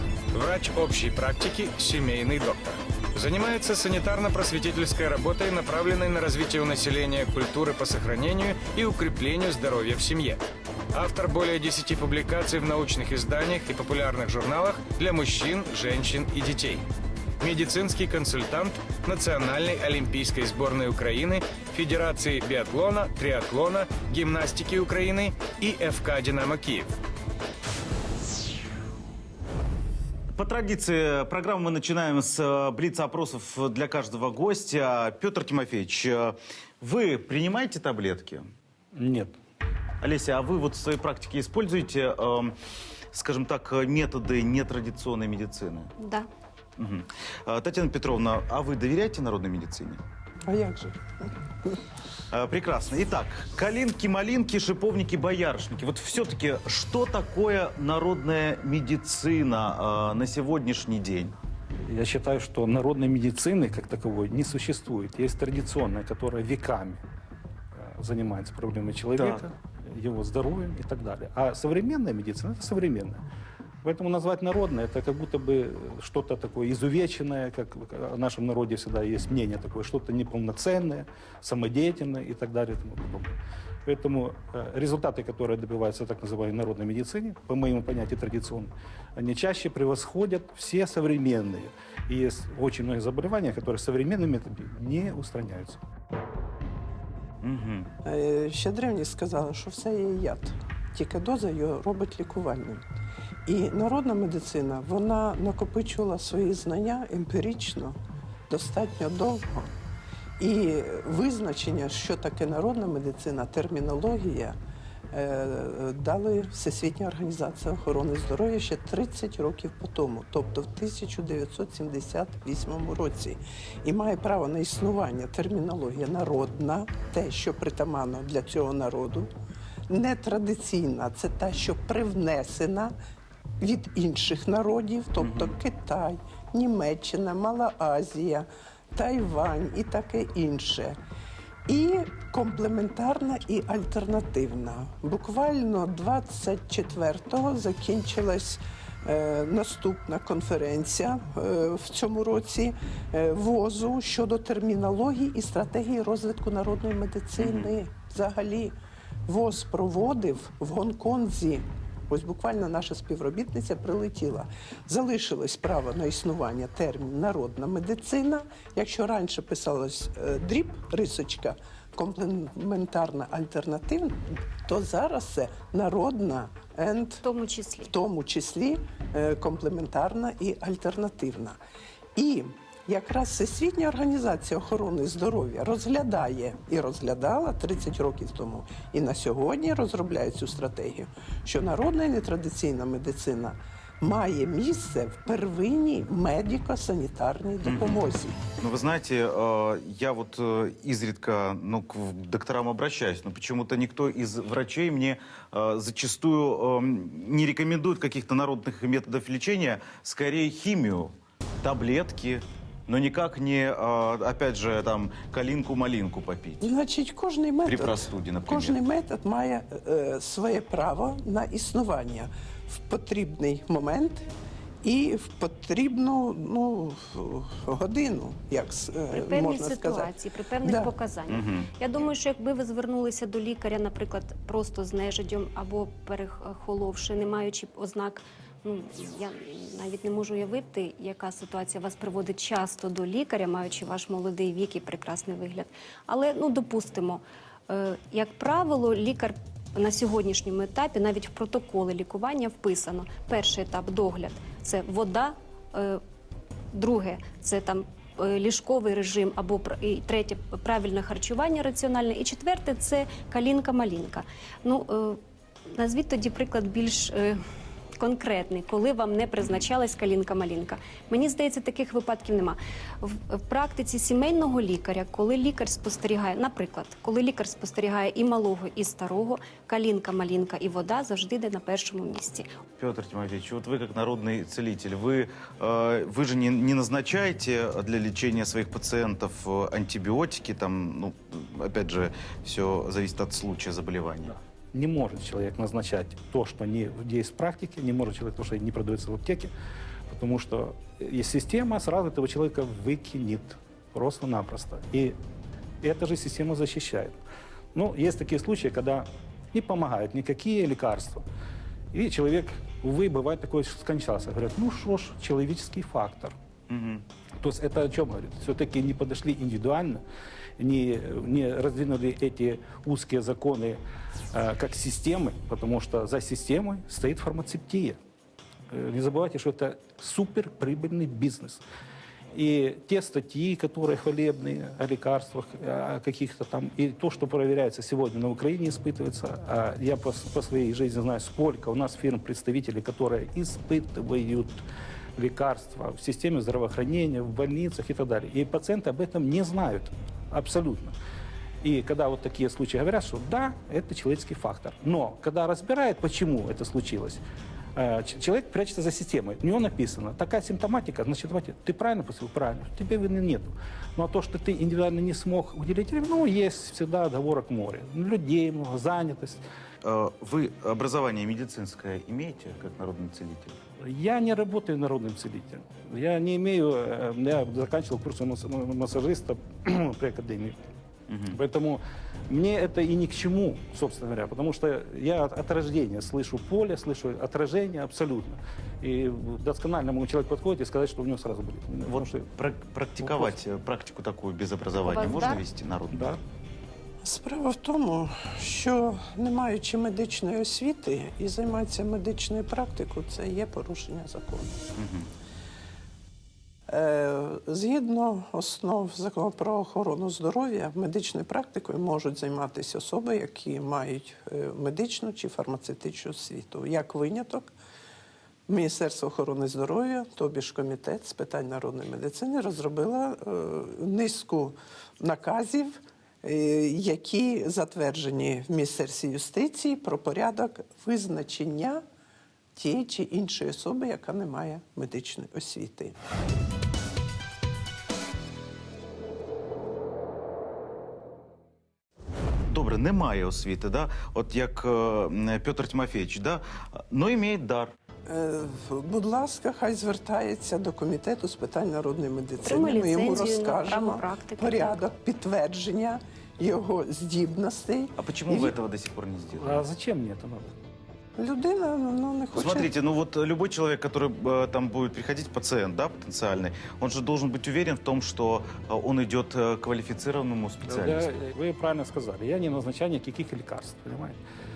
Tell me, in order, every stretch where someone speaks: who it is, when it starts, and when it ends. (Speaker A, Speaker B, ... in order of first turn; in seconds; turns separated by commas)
Speaker A: 0.3-16.9, Speaker A: 17.4-27.0, Speaker B: 30.3-38.5, Speaker C: 39.0-39.4, Speaker B: 40.0-42.6, Speaker B: 43.1-45.9, Speaker D: 46.0-46.3, Speaker B: 46.8-50.0, Speaker E: 50.4-51.0, Speaker B: 52.3-61.3, Speaker C: 61.9-67.0, Speaker C: 67.8-73.2, Speaker B: 69.2-69.5, Speaker C: 73.8-95.8, Speaker B: 97.4-97.9, Speaker E: 98.0-102.8, Speaker E: 103.5-108.0, Speaker E: 108.5-109.7, Speaker E: 110.4-114.6, Speaker E: 115.1-129.3, Speaker E: 129.9-132.9, Speaker E: 133.6-140.9, Speaker B: 135.2-135.5, Speaker E: 141.7-158.8, Speaker B: 157.4-157.7, Speaker E: 159.3-177.2, Speaker D: 177.2-177.9, Speaker E: 177.9-181.6, Speaker E: 182.2-198.4, Speaker B: 197.7-198.0, Speaker B: 198.6-216.7, Speaker E: 216.6-224.3, Speaker B: 217.7-218.8, Speaker E: 224.8-230.9, Speaker D: 229.1-256.0, Speaker B: 231.3-231.7, Speaker D: 256.7-265.2, Speaker D: 265.7-267.4, Speaker D: 268.0-282.5, Speaker B: 282.8-294.3, Speaker C: 294.7-299.5, Speaker C: 300.1-305.2, Speaker C: 305.8-307.2, Speaker C: 307.7-311.2, Speaker C: 311.9-316.3, Speaker B: 316.7-317.1, Speaker C: 317.4-320.0, Speaker C: 320.6-323.8, Speaker C: 324.3-328.0, Speaker C: 328.7-331.6, Speaker C: 332.3-344.6, Speaker C: 345.2-350.9, Speaker C: 351.6-357.2, Speaker C: 357.8-369.4, Speaker B: 369.8-373.6, Speaker C: 373.8-380.6, Speaker B: 381.1-381.4, Speaker C: 381.3-392.3, Speaker B: 391.9-396.2, Speaker C: 393.0-393.3, Speaker D: 394.8-395.4, Speaker C: 395.9-396.2, Speaker E: 397.0-404.6, Speaker B: 404.8-405.1, Speaker E: 406.7-417.5, Speaker E: 418.5-431.8, Speaker E: 432.6-435.9, Speaker B: 442.5-447.7, Speaker E: 448.1-458.6, Speaker D: 452.4-454.8, Speaker B: 458.0-459.6, Speaker C: 459.3-460.6, Speaker E: 461.2-462.7, Speaker B: 462.3-471.1, Speaker C: 470.7-474.2